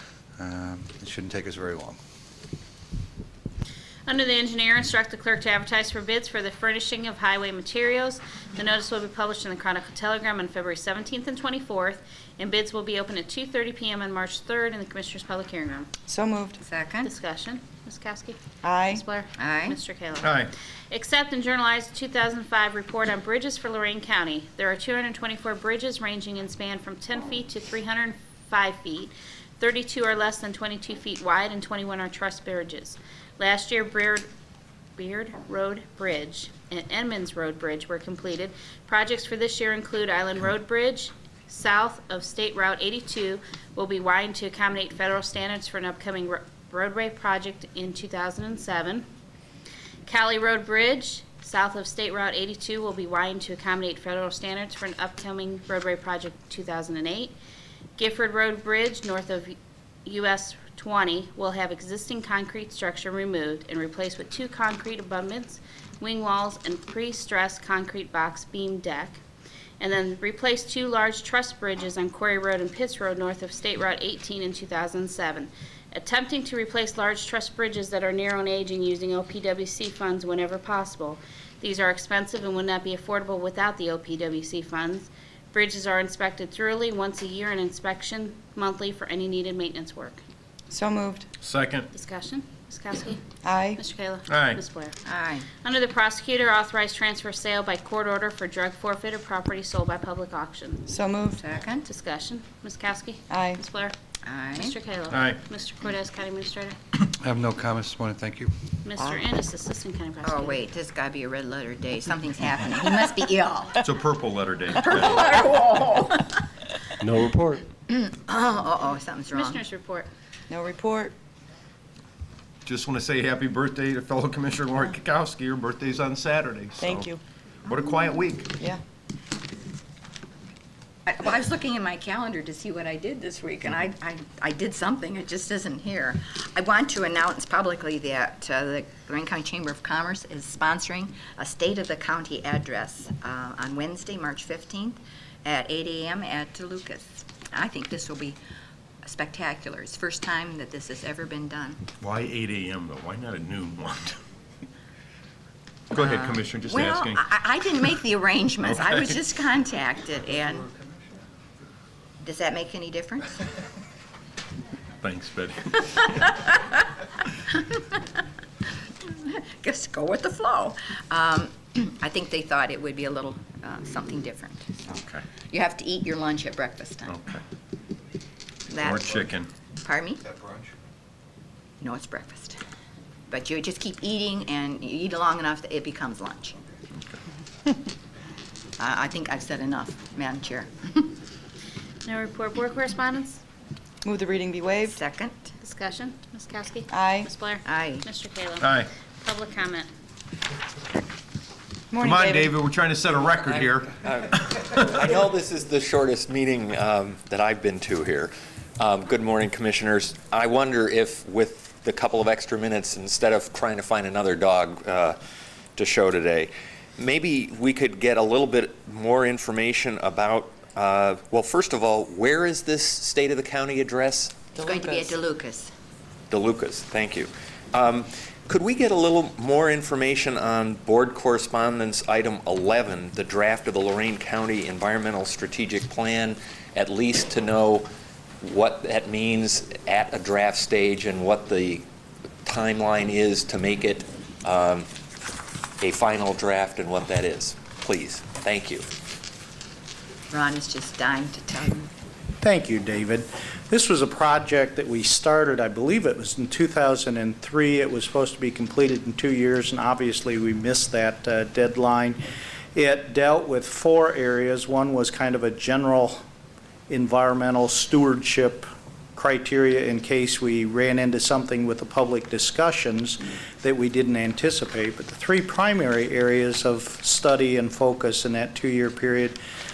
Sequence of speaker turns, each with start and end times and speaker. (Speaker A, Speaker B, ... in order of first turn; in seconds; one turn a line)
Speaker A: 0.4-2.0
Speaker B: 4.1-15.9
Speaker C: 16.1-16.6
Speaker D: 16.6-17.1
Speaker B: 17.0-34.2
Speaker C: 18.6-19.0
Speaker D: 19.4-19.8
Speaker E: 20.2-20.5
Speaker B: 35.0-49.0
Speaker B: 50.1-57.3
Speaker B: 58.0-69.2
Speaker B: 69.8-90.2
Speaker C: 90.7-91.3
Speaker E: 91.4-91.9
Speaker B: 91.9-94.9
Speaker C: 93.4-93.8
Speaker E: 94.3-94.6
Speaker D: 95.0-95.5
Speaker B: 95.6-100.8
Speaker C: 100.9-101.4
Speaker D: 101.3-101.8
Speaker B: 101.8-103.9
Speaker C: 103.3-103.6
Speaker D: 104.2-104.8
Speaker B: 104.5-106.7
Speaker E: 105.1-105.4
Speaker A: 107.2-108.5
Speaker B: 108.8-110.6
Speaker D: 110.2-113.9
Speaker E: 113.8-115.6
Speaker D: 114.8-116.5
Speaker D: 117.7-119.6
Speaker B: 119.3-120.1
Speaker C: 120.5-121.1
Speaker E: 122.6-128.7
Speaker C: 126.8-127.2
Speaker D: 131.1-148.4
Speaker D: 149.0-151.8
Speaker E: 152.0-154.2
Speaker E: 155.9-157.2
Speaker D: 155.9-160.7
Speaker E: 158.7-159.1
Speaker D: 162.2-163.4
Speaker E: 165.0-166.2
Speaker D: 166.2-166.8
Speaker D: 167.5-168.0
Speaker D: 169.0-177.2
Speaker E: 174.9-175.2
Speaker E: 177.1-177.4
Speaker D: 178.7-179.3
Speaker E: 178.8-179.5
Speaker D: 179.8-180.3
Speaker D: 181.8-182.6
Speaker D: 183.3-186.6
Speaker D: 188.8-191.2
Speaker B: 192.0-193.4
Speaker C: 194.0-195.0
Speaker D: 194.9-195.5
Speaker B: 195.6-199.9
Speaker C: 196.9-197.3
Speaker D: 197.6-198.1
Speaker E: 198.6-198.9
Speaker C: 201.9-202.5
Speaker E: 202.0-204.7
Speaker F: 203.5-215.2
Speaker F: 215.8-224.5
Speaker D: 224.5-225.7
Speaker C: 224.6-225.1
Speaker F: 226.3-237.9
Speaker F: 238.4-241.8
Speaker F: 242.4-244.9
Speaker F: 245.8-248.8
Speaker D: 250.3-251.9
Speaker G: 252.4-262.2
Speaker G: 262.7-266.2
Speaker G: 266.9-279.4